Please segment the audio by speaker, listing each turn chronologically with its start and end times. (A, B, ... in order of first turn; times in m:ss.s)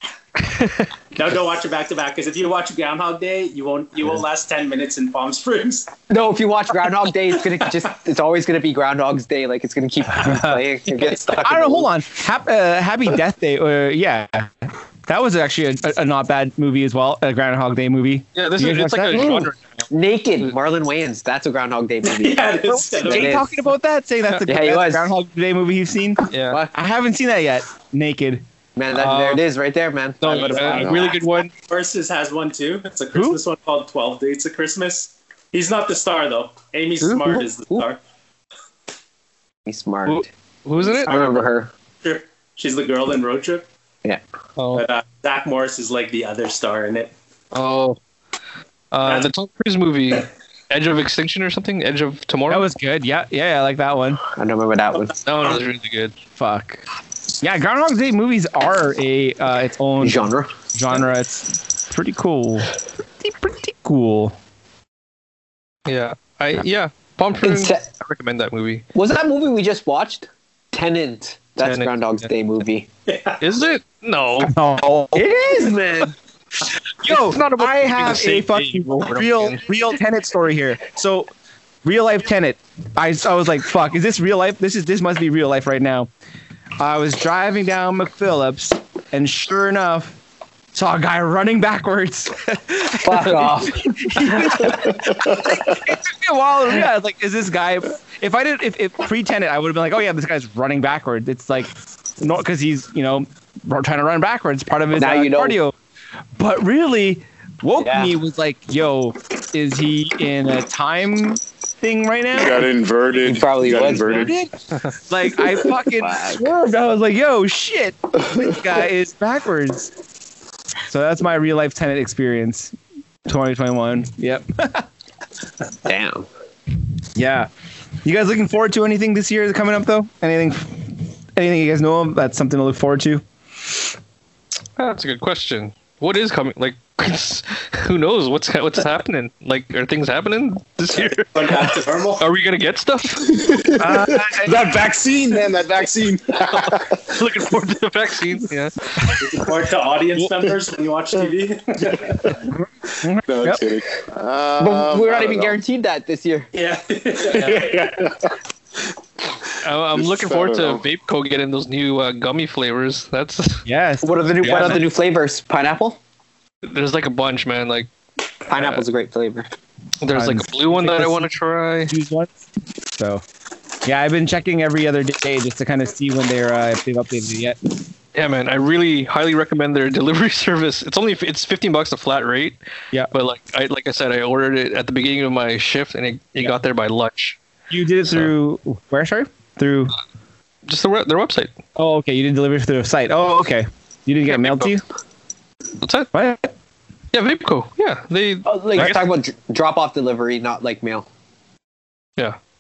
0:00.4-0:00.9 A
0:01.1-0:05.9 B
0:06.1-0:11.9 C
0:10.2-0:10.6 D
0:11.4-0:19.5 D
0:18.4-0:19.9 A
0:19.9-0:23.5 C
0:22.0-0:23.4 B
0:22.7-0:28.4 D
0:24.4-0:25.1 C
0:26.3-0:26.6 A
0:28.8-0:31.2 C
0:29.0-0:29.4 A
0:30.2-0:31.5 A
0:30.8-0:31.1 E
0:31.6-0:38.0 B
0:33.1-0:33.4 D
0:37.0-0:37.5 C
0:39.7-0:40.3 C
0:40.1-0:41.1 A
0:41.0-0:41.7 C
0:42.0-0:43.7 B
0:44.6-0:44.9 A
0:44.7-0:47.1 B
0:47.5-0:48.0 A
0:48.9-0:52.7 A
0:52.5-0:54.2 D
0:54.4-0:55.2 C
0:55.2-0:56.2 A
0:56.4-0:56.8 D
0:57.4-1:04.4 D
1:00.0-1:00.5 C
1:05.9-1:08.8 A
1:07.4-1:07.8 C
1:09.0-1:12.9 C
1:11.6-1:12.3 A
1:13.1-1:13.4 B
1:13.4-1:14.6 A
1:14.4-1:15.3 D
1:15.1-1:16.1 C
1:17.0-1:21.3 D
1:17.0-1:19.6 A
1:21.8-1:26.1 D
1:26.8-1:30.2 D
1:30.7-1:45.7 D
1:33.0-1:35.0 C
1:44.9-1:45.6 C
1:46.4-1:52.7 D
1:47.8-1:48.1 C
1:52.4-1:54.4 E
1:53.2-1:54.3 C
1:54.2-1:59.9 D
1:55.9-1:56.5 C
2:00.9-2:02.8 D
2:03.3-2:04.9 D
2:05.9-2:06.3 C
2:07.2-2:07.5 D
2:08.0-2:13.2 D
2:14.8-2:23.7 A
2:21.3-2:22.2 B
2:23.3-2:27.2 E
2:23.8-2:24.6 D
2:26.7-2:28.7 A
2:29.2-2:32.3 B
2:32.5-2:33.6 D
2:33.3-2:35.6 E
2:34.6-2:36.5 C
2:36.5-2:37.8 B
2:37.3-2:38.3 E
2:39.6-2:43.6 A
2:39.9-2:40.8 E
2:43.7-2:44.9 D
2:44.0-2:46.0 C
2:46.6-2:47.9 A
2:48.5-2:49.5 C
2:48.6-2:48.8 A
2:50.0-2:51.9 A
2:50.1-2:51.4 D
2:51.9-2:52.4 D
2:53.0-2:53.2 D
2:53.8-2:57.6 D
2:58.2-3:02.6 A
3:03.1-3:07.4 A
3:07.7-3:10.0 D
3:10.7-3:11.6 A
3:11.8-3:14.8 D
3:14.3-3:14.7 A
3:15.8-3:16.1 A
3:16.1-3:16.5 D
3:17.1-3:19.0 A
3:18.4-3:21.1 C